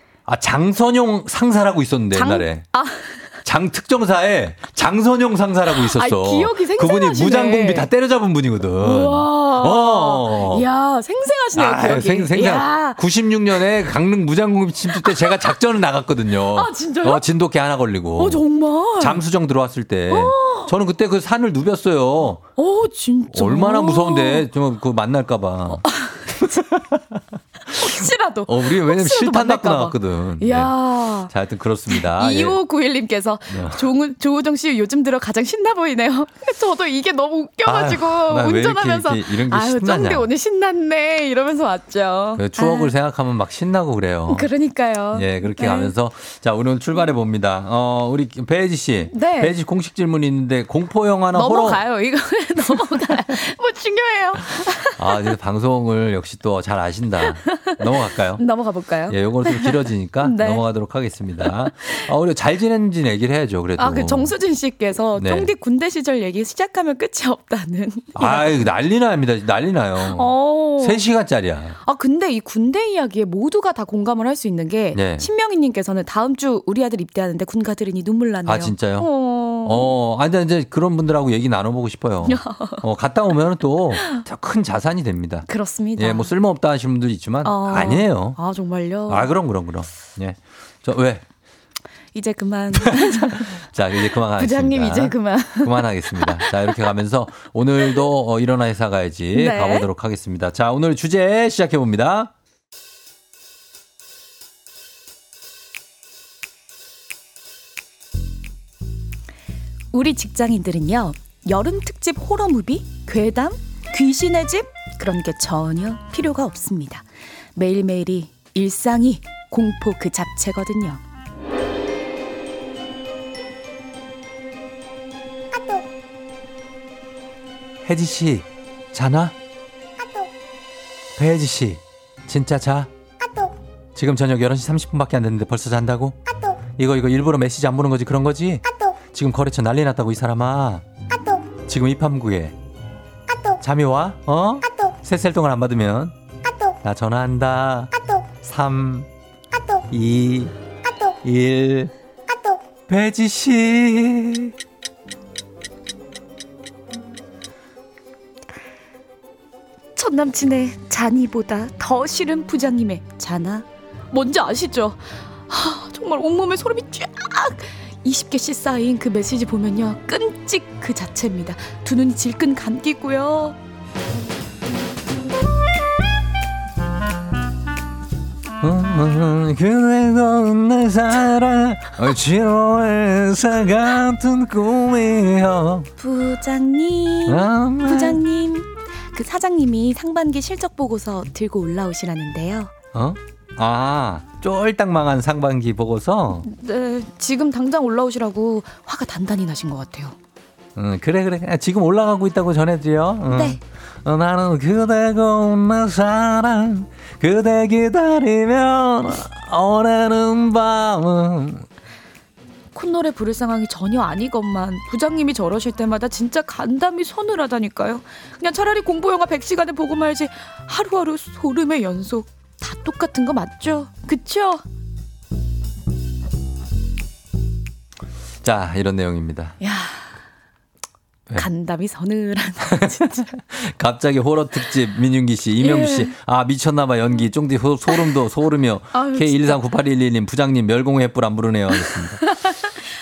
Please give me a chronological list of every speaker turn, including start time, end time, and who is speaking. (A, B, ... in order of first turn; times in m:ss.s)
0:00.3-0:02.7 A
0:02.1-0:03.3 B
0:03.4-0:10.7 A
0:05.7-0:07.9 B
0:08.8-0:13.0 B
0:11.6-0:18.4 A
0:14.9-0:15.6 B
0:16.4-0:17.2 B
0:18.2-0:19.2 B
0:19.0-0:22.5 A
0:20.1-0:20.8 B
0:22.6-0:24.5 B
0:23.3-0:32.6 A
0:25.7-0:26.7 B
0:27.7-0:31.3 B
0:31.9-0:42.9 B
0:33.5-0:33.9 A
0:37.6-0:40.3 A
0:42.4-0:44.5 A
0:44.3-0:46.0 B
0:45.1-0:51.8 A
0:49.1-0:49.6 B
0:51.3-0:55.1 B
0:55.0-0:58.4 A
0:57.2-1:00.6 B
0:59.1-1:04.4 A
1:01.4-1:02.0 B
1:03.8-1:08.6 B
1:05.2-1:05.5 A
1:08.2-1:11.8 A
1:10.0-1:11.0 B
1:11.8-1:19.9 B
1:14.9-1:15.3 A
1:18.5-1:19.1 A
1:19.6-1:28.4 A
1:22.2-1:22.8 B
1:24.0-1:24.2 B
1:25.5-1:26.3 B
1:27.4-1:29.3 B
1:29.1-1:31.2 A
1:32.1-1:33.6 B
1:32.7-1:42.3 A
1:34.4-1:36.9 B
1:39.3-1:39.9 B
1:49.9-2:01.0 B
2:07.9-2:09.4 A
2:11.2-2:12.9 A
2:14.0-2:16.2 A
2:16.8-2:20.8 A
2:21.7-2:22.6 A
2:23.6-2:26.2 A
2:26.8-2:29.1 A
2:29.9-2:30.5 A
2:31.2-2:31.9 A
2:32.9-2:34.5 A
2:40.0-2:53.6 B
2:58.6-3:05.9 A
3:06.0-3:12.7 B
3:07.3-3:08.2 A
3:12.9-3:16.5 A
3:16.4-3:20.2 B
3:20.8-3:31.7 A
3:23.3-3:23.6 B
3:32.7-3:44.6 B
3:48.4-3:49.6 A
3:49.6-3:50.2 B
3:51.4-3:53.3 B
3:52.6-4:02.2 A
3:55.6-3:56.1 B
3:57.9-3:58.2 B
3:58.9-3:59.6 B
4:01.7-4:02.7 B